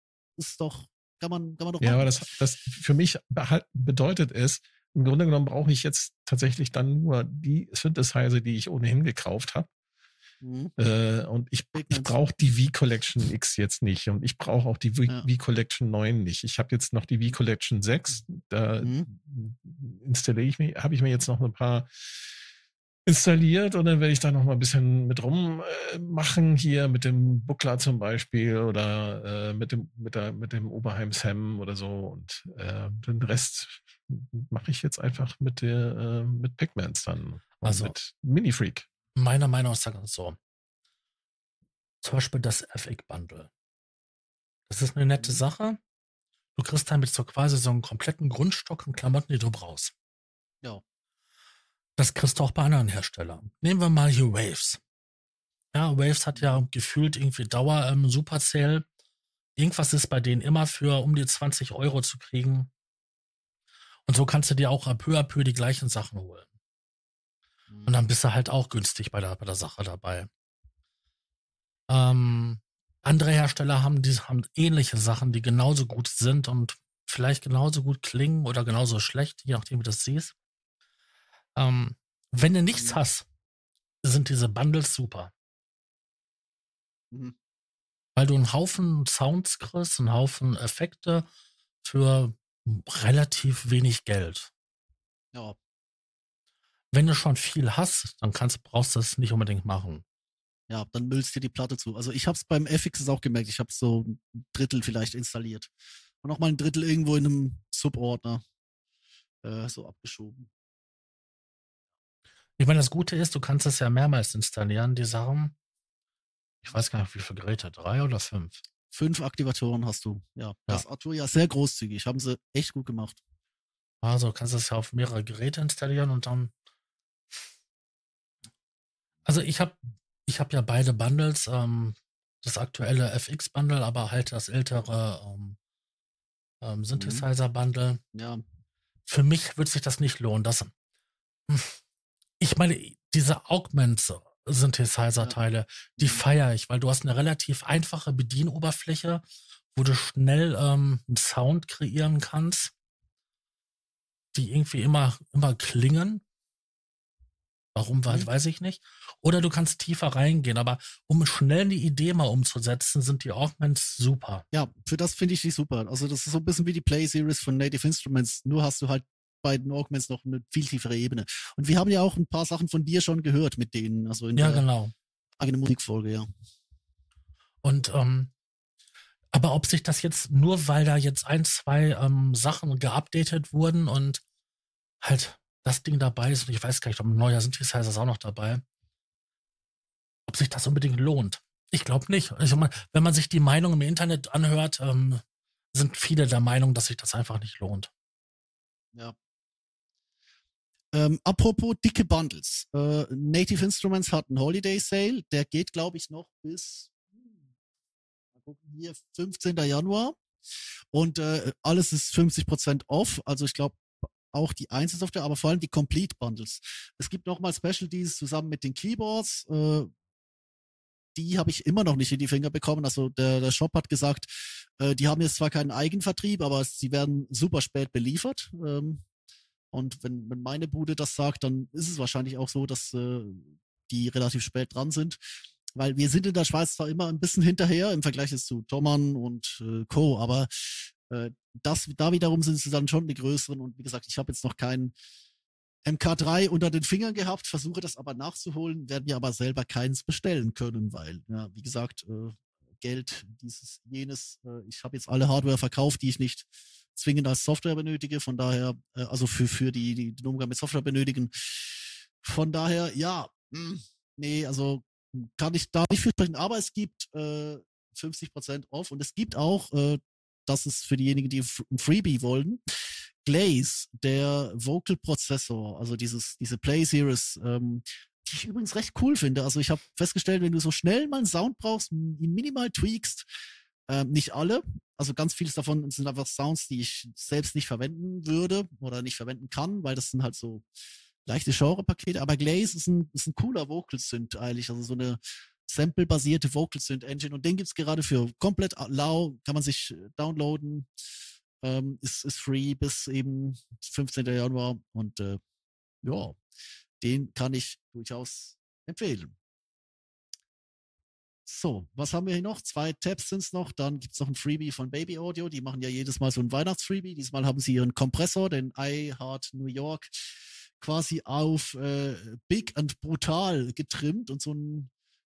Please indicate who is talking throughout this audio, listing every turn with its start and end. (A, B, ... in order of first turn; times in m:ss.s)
0:00.4-0:02.3 A
0:01.8-0:09.7 B
0:10.4-0:10.7 A
0:10.8-0:22.3 B
0:11.7-0:12.2 A
0:18.8-0:19.1 A
0:23.1-0:38.9 B
0:37.6-0:37.9 C
0:39.2-0:40.4 C
0:42.0-0:43.5 C
0:44.7-0:45.8 C
0:46.6-0:49.9 C
0:52.0-0:54.8 C
0:55.7-0:58.8 C
0:56.4-0:56.6 A
0:59.6-1:02.7 C
1:04.1-1:06.5 C
1:07.7-1:08.0 A
1:07.9-1:10.3 C
1:11.9-1:20.4 C
1:21.6-1:23.2 C
1:24.0-1:25.3 C
1:28.2-1:31.3 C
1:31.8-1:34.5 C
1:36.9-1:40.0 C
1:40.7-1:45.7 A
1:46.2-1:48.4 A
1:49.4-1:50.5 A
1:52.6-1:55.6 C
1:56.6-1:58.6 C
1:58.9-2:03.2 A
2:04.0-2:06.5 C
2:09.3-2:15.6 C
2:16.6-2:18.0 C
2:17.0-2:17.3 A
2:18.1-2:18.4 A
2:19.1-2:20.7 C
2:21.5-2:21.8 C
2:22.4-2:29.2 C
2:29.7-2:32.7 C
2:34.3-2:36.2 C
2:37.8-2:44.4 C
2:44.5-2:54.6 A
2:54.4-2:54.9 C
2:55.4-2:56.3 A
2:57.6-2:58.3 C
2:59.3-3:04.2 C
3:05.0-3:08.6 C
3:10.3-3:15.2 C
3:15.7-3:17.9 C
3:20.9-3:27.0 A
3:28.4-3:30.2 A
3:30.9-3:39.9 A
3:41.2-3:49.0 A
3:49.7-3:55.2 A
3:55.8-4:04.9 A
4:05.8-4:32.6 A
4:33.2-4:43.3 A
4:43.9-4:50.6 A
4:51.3-5:00.9 A
5:01.6-5:05.4 A
5:06.0-5:06.4 A
5:07.0-5:09.4 A
5:11.5-5:24.9 A